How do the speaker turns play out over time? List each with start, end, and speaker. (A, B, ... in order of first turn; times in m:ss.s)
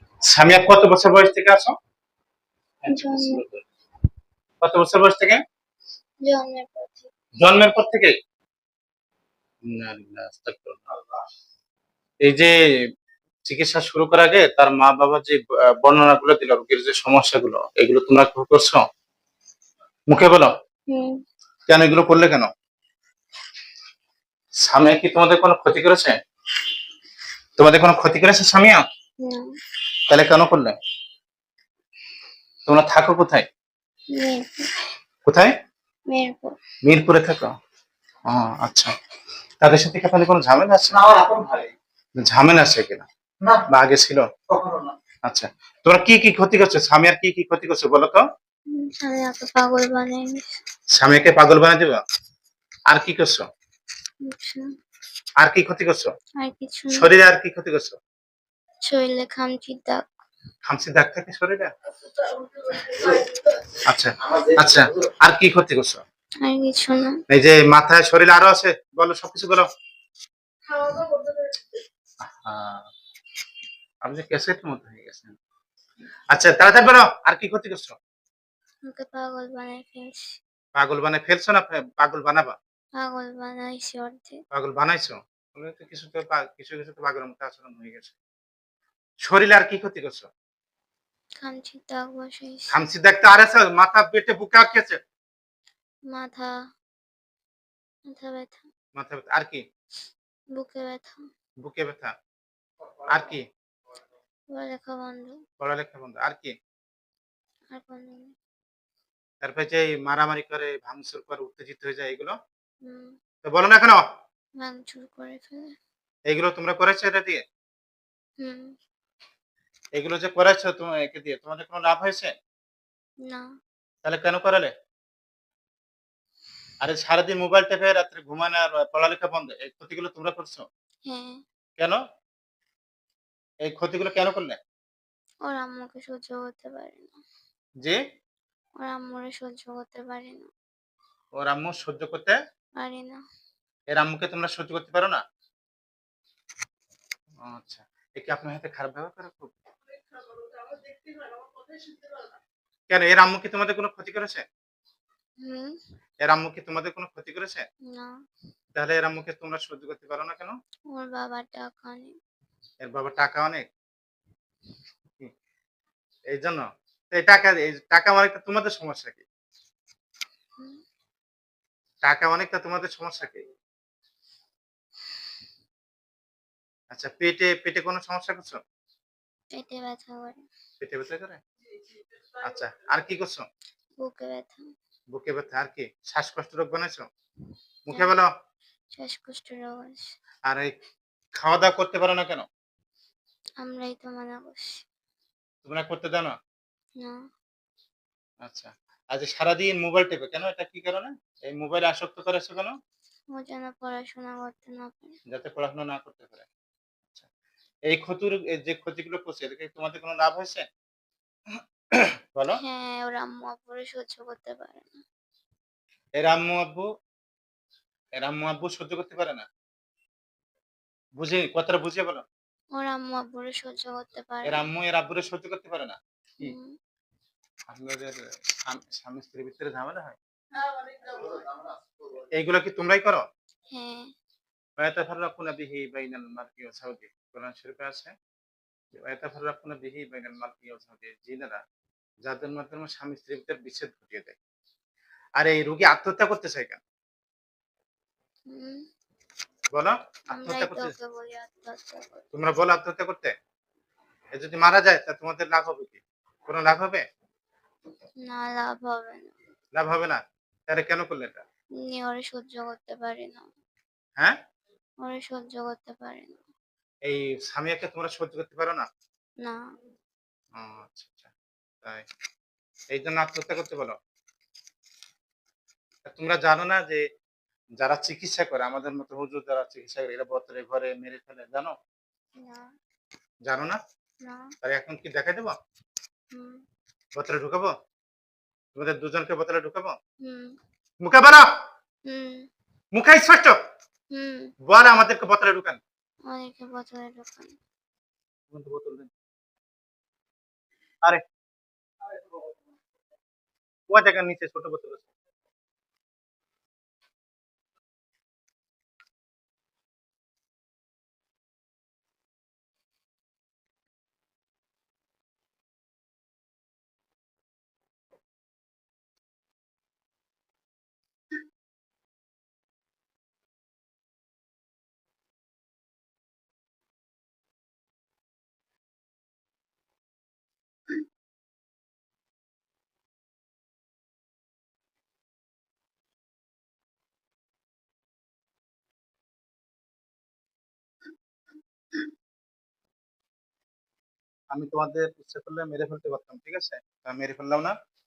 0:00.3-0:01.7 A
0:02.8-0:03.6 A
0:02.9-0:03.4 B
0:04.6-0:05.4 A
0:06.2-0:07.1 B
0:07.4-0:08.1 A
0:09.7-0:10.9 A
0:12.2-0:12.6 A
0:13.5-0:18.8 A
0:20.1-0:20.5 A
0:20.9-0:21.2 B
0:21.7-0:22.5 A
0:24.6-0:26.2 A
0:27.6-0:28.8 A
0:29.2-0:29.5 B
0:30.1-0:30.8 A
0:32.7-0:33.5 A
0:34.1-0:34.7 B
0:35.2-0:35.5 A
0:36.1-0:36.6 B
0:36.8-0:37.5 A
0:38.3-0:38.9 A
0:39.6-0:41.5 A
0:42.2-0:44.6 A
0:45.3-0:48.2 A
0:48.7-0:50.6 B
0:50.9-0:52.0 A
0:52.9-0:53.5 A
0:54.2-0:54.7 B
0:55.4-0:56.1 A
0:56.4-0:57.1 B
0:56.9-0:58.0 A
0:58.8-1:00.0 B
1:00.6-1:01.7 A
1:03.8-1:06.0 A
1:06.4-1:07.2 B
1:07.3-1:09.7 A
1:12.3-1:12.8 A
1:14.0-1:15.4 A
1:16.3-1:18.0 A
1:18.8-1:20.4 B
1:20.8-1:22.6 A
1:23.0-1:24.4 B
1:24.5-1:28.2 A
1:29.2-1:30.3 A
1:31.4-1:32.7 B
1:32.7-1:35.0 A
1:36.1-1:36.6 B
1:38.1-1:38.7 B
1:39.0-1:39.6 A
1:40.5-1:41.2 B
1:41.6-1:42.1 A
1:43.0-1:43.4 A
1:44.5-1:45.4 B
1:45.6-1:46.5 A
1:47.7-1:48.4 B
1:49.4-1:52.4 A
1:52.8-1:53.2 B
1:53.4-1:54.0 A
1:54.6-1:55.8 B
1:56.3-1:57.4 A
1:58.4-1:58.8 B
2:00.0-2:02.4 A
2:04.0-2:04.7 A
2:06.8-2:10.6 A
2:11.1-2:11.4 B
2:13.6-2:14.6 A
2:15.4-2:17.2 B
2:18.8-2:20.5 B
2:21.4-2:22.4 A
2:22.8-2:23.2 B
2:23.9-2:25.2 A
2:27.4-2:29.5 A
2:32.9-2:34.4 A
2:35.4-2:35.8 B
2:36.2-2:37.7 A
2:37.9-2:38.2 B
2:38.8-2:40.6 A
2:40.9-2:42.1 B
2:42.8-2:43.7 A
2:46.3-2:49.2 A
2:52.0-2:53.5 A
2:56.9-2:58.6 A
2:59.5-3:00.4 B
3:00.8-3:01.4 A
3:02.4-3:03.5 A
3:04.0-3:04.7 B
3:05.1-3:07.1 A
3:07.9-3:08.3 A
3:08.9-3:10.1 B
3:10.5-3:10.7 A
3:11.4-3:12.5 A
3:13.6-3:14.8 B
3:15.6-3:16.4 A
3:18.4-3:22.8 A
3:23.3-3:25.2 B
3:25.3-3:26.5 A
3:27.9-3:30.6 A
3:31.9-3:32.6 A
3:32.6-3:35.0 B
3:36.2-3:36.9 A
3:38.2-3:39.5 A
3:41.2-3:42.2 A
3:42.7-3:44.7 B
3:44.4-3:46.5 A
3:46.4-3:46.8 B
3:47.7-3:50.2 A
3:52.3-3:53.2 A
3:53.7-3:54.1 B
3:54.8-3:58.1 A
3:58.9-4:01.6 A
4:02.2-4:04.4 A
4:05.4-4:06.8 A
4:08.5-4:08.8 B
4:09.7-4:10.9 A
4:10.3-4:12.3 B
4:12.3-4:13.3 A
4:14.3-4:17.0 A
4:18.2-4:19.4 B
4:19.7-4:21.4 A
4:21.8-4:23.5 B
4:25.0-4:26.4 B
4:27.0-4:28.9 A
4:30.6-4:31.3 A
4:32.9-4:34.0 A
4:36.0-4:37.0 A
4:37.8-4:41.7 A
4:42.4-4:42.7 B
4:43.5-4:43.8 A
4:44.2-4:44.5 B
4:44.6-4:45.6 A
4:46.3-4:46.6 B
4:47.2-4:47.7 A
4:48.8-4:50.0 A
4:50.2-4:50.6 B
4:51.0-4:51.5 A
4:52.0-4:52.5 B
4:52.9-4:53.6 A
4:54.1-4:54.5 B
4:54.7-4:55.8 A
4:56.3-4:57.6 B
4:58.5-4:59.1 A
5:03.9-5:05.1 A
5:44.5-5:47.8 A